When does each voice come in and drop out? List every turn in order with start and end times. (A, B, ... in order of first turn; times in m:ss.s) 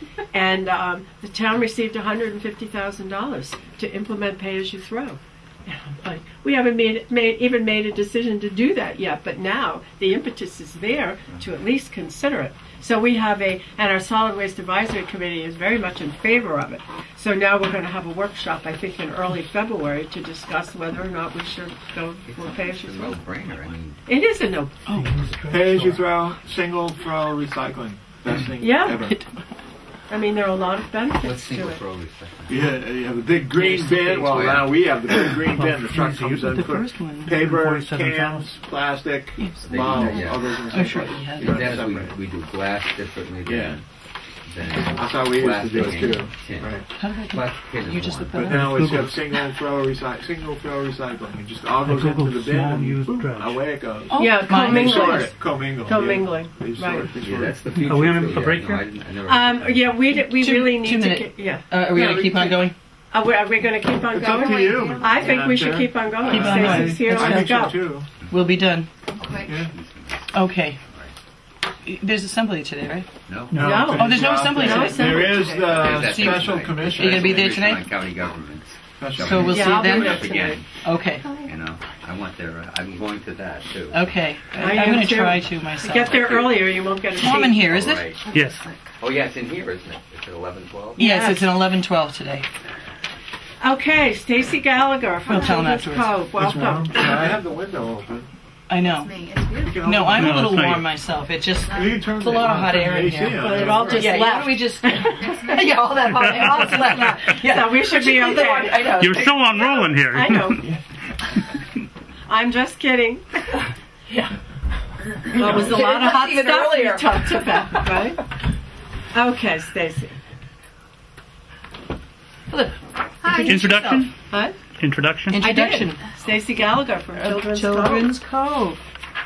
0:00.3-0:23.2 A
0:22.2-0:24.1 B
0:24.0-0:24.7 A
0:24.8-0:25.5 C
0:25.0-0:26.0 D
0:25.5-0:29.2 E
0:28.6-0:29.1 A
0:29.1-0:29.5 C
0:30.1-0:31.8 A
0:31.2-0:32.7 B
0:32.5-0:42.2 E
0:33.5-0:35.4 B
0:35.5-0:38.5 D
0:36.5-0:37.3 C
0:39.4-0:39.6 C
0:39.6-0:40.6 B
0:40.7-0:41.5 C
0:41.4-0:43.8 B
0:43.4-0:43.8 E
0:44.4-0:48.5 B
0:44.8-0:46.9 E
0:46.9-0:49.1 C
0:48.4-0:57.7 E
0:48.4-0:49.2 D
0:51.8-0:53.7 D
0:54.0-0:55.3 C
0:54.2-0:57.1 A
0:57.2-1:00.0 B
0:57.7-0:58.9 D
0:59.3-1:07.8 A
1:00.1-1:02.7 C
1:04.1-1:08.1 E
1:04.1-1:05.5 F
1:06.2-1:08.9 C
1:09.1-1:11.1 B
1:09.2-1:09.6 F
1:09.4-1:09.7 E
1:10.3-1:10.8 C
1:11.8-1:13.1 C
1:13.2-1:13.7 B
1:13.5-1:13.9 D
1:13.6-1:17.5 E
1:13.6-1:15.6 A
1:13.9-1:15.5 C
1:15.6-1:20.7 B
1:16.1-1:16.5 C
1:17.0-1:17.9 C
1:19.0-1:19.8 E
1:19.2-1:21.3 C
1:19.5-1:20.6 A
1:21.2-1:21.5 F
1:21.3-1:24.1 B
1:23.9-1:26.5 C
1:24.6-1:27.7 A
1:26.0-1:26.7 B
1:27.1-1:28.2 C
1:27.7-1:28.2 B
1:28.3-1:28.6 D
1:29.0-1:31.0 B
1:31.0-1:31.5 A
1:31.0-1:32.5 C
1:33.6-1:37.3 A
1:35.3-1:36.3 C
1:36.3-1:38.3 E
1:38.7-1:39.2 C
1:38.8-1:39.9 F
1:39.6-1:40.5 E
1:39.9-1:49.8 C
1:40.2-1:40.8 D
1:41.6-1:42.2 F
1:41.7-1:44.2 E
1:43.3-1:45.6 A
1:45.2-1:45.7 F
1:46.2-1:46.9 D
1:46.6-1:50.7 A
1:49.0-1:50.6 D
1:52.3-1:53.5 A
1:54.1-1:54.3 C
1:55.3-1:58.3 A
1:55.3-1:58.0 C
1:59.1-2:00.2 A
2:02.5-2:04.0 C
2:03.2-2:04.1 F
2:03.5-2:04.1 D
2:04.3-2:04.5 A
2:04.8-2:05.4 D
2:05.3-2:06.0 C
2:05.4-2:08.1 A
2:07.2-2:08.8 C